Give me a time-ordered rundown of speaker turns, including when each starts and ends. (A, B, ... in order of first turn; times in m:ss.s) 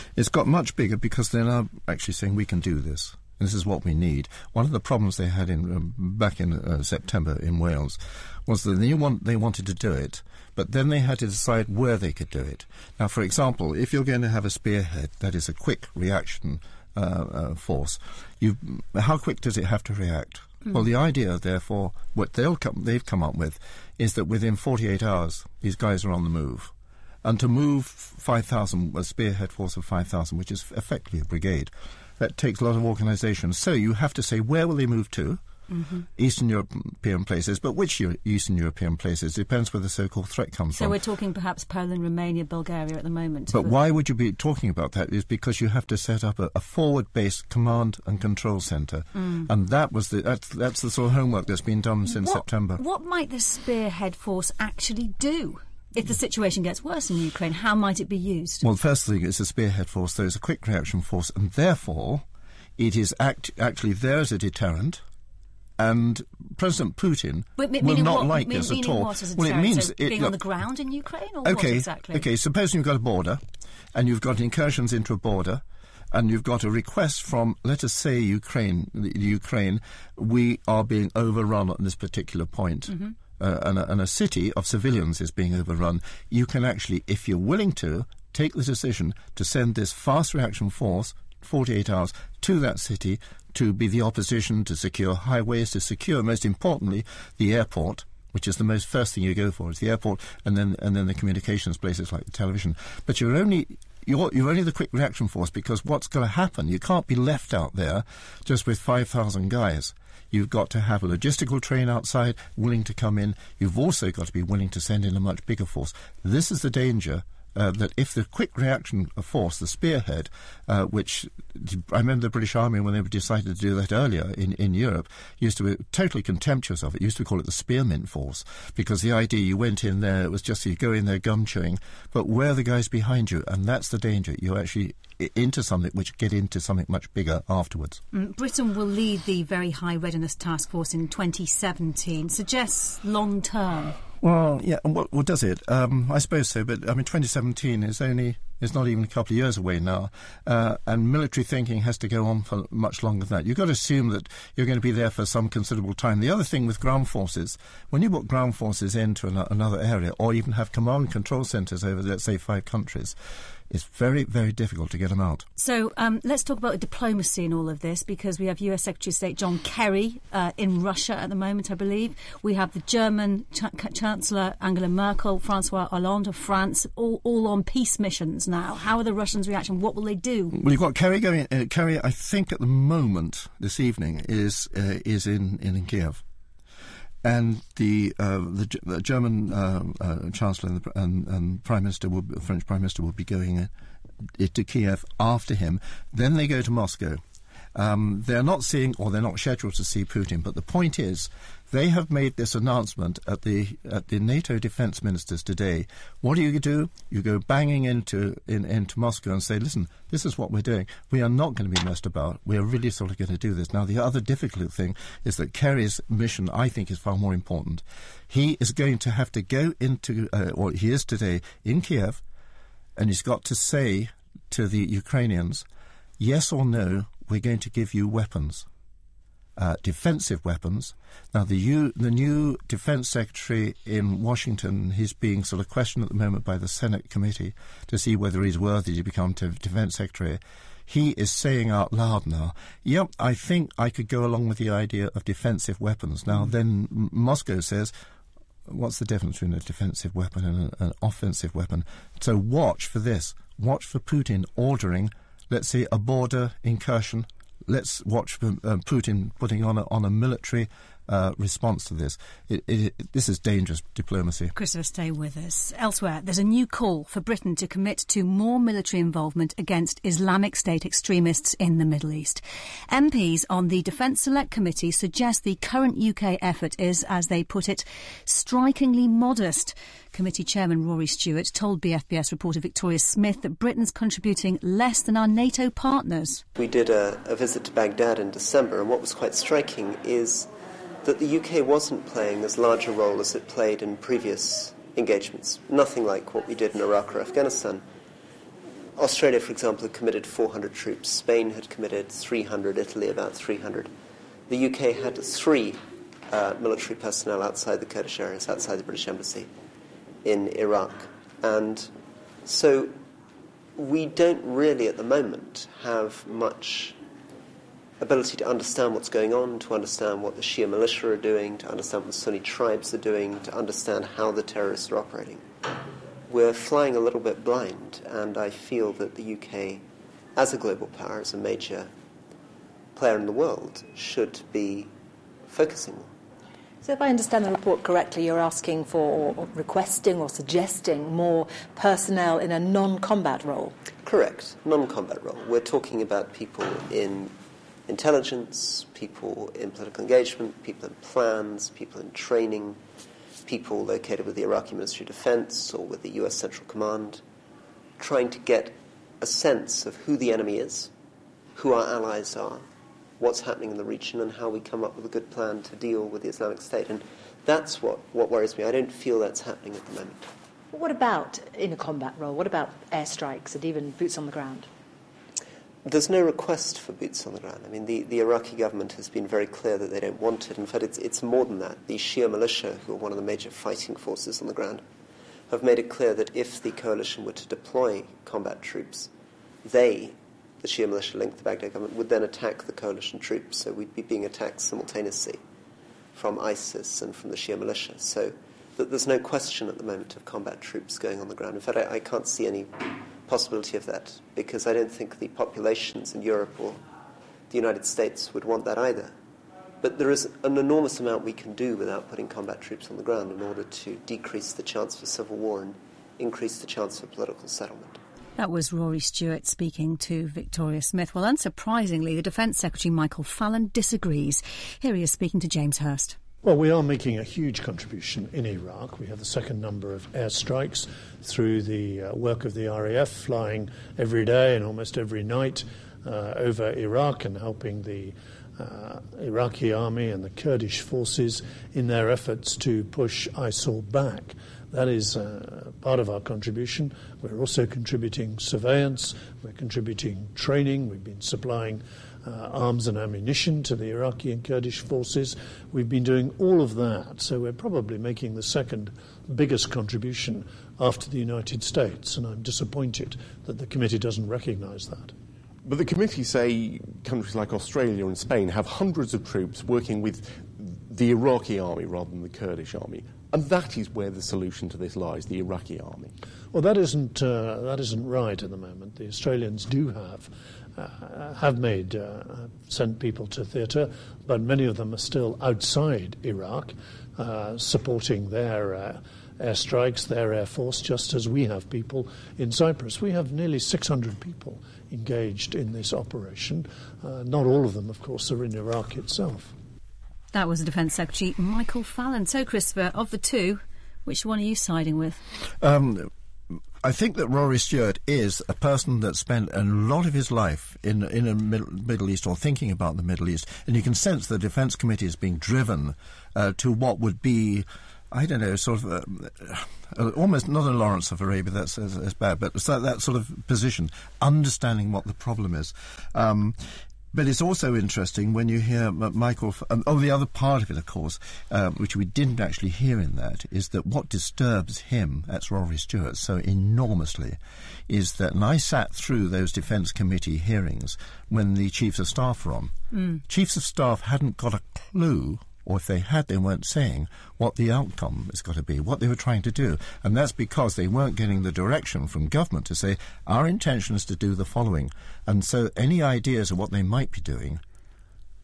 0:00.2-0:26.7 A
0:27.2-0:35.4 A
0:35.7-0:36.0 B
0:36.2-0:41.0 A
0:40.8-0:43.7 B
0:43.5-0:52.8 A
0:52.1-0:58.6 B
0:58.6-1:02.2 A
1:02.8-1:05.0 A
1:05.8-1:10.4 A
1:07.6-1:12.2 B
1:11.4-1:13.4 A
1:13.9-2:18.0 A
2:18.1-2:24.0 B
2:24.2-2:43.2 A
2:43.7-2:45.4 A
2:45.6-3:00.6 B
3:00.5-3:06.2 A
3:07.2-3:13.7 A
3:14.3-3:17.2 A
3:17.7-3:42.2 A
3:43.0-3:45.6 A
3:46.2-3:48.6 A
3:49.6-4:07.9 A
4:08.7-4:24.5 A
4:24.5-4:46.4 B
4:46.6-4:50.5 C
4:51.0-4:57.8 C
4:59.0-5:03.9 C
5:04.5-5:09.5 C
5:10.2-5:11.9 C
5:12.4-5:13.0 C
5:13.8-5:17.0 C
5:18.0-5:25.4 C
5:26.3-5:29.8 C
5:30.4-5:31.9 C
5:32.9-5:34.9 C
5:35.5-5:36.1 C
5:36.8-5:43.8 D
5:44.0-5:47.3 C
5:47.9-5:52.8 C
5:53.4-5:57.2 C
5:58.0-6:00.9 C
6:01.5-6:02.6 C
6:03.2-6:10.3 C
6:10.7-6:14.7 D
6:15.8-6:24.8 C
6:25.5-6:29.1 C
6:29.6-6:35.4 C
6:36.1-6:46.8 C
6:47.5-6:49.1 C
6:49.8-6:58.0 C
6:58.4-7:06.2 B
7:06.4-7:45.1 E
7:45.6-7:56.1 F
7:56.5-8:19.5 E
8:20.3-8:25.2 B
8:25.6-8:26.1 A
8:26.8-8:46.6 A
8:47.1-9:17.6 A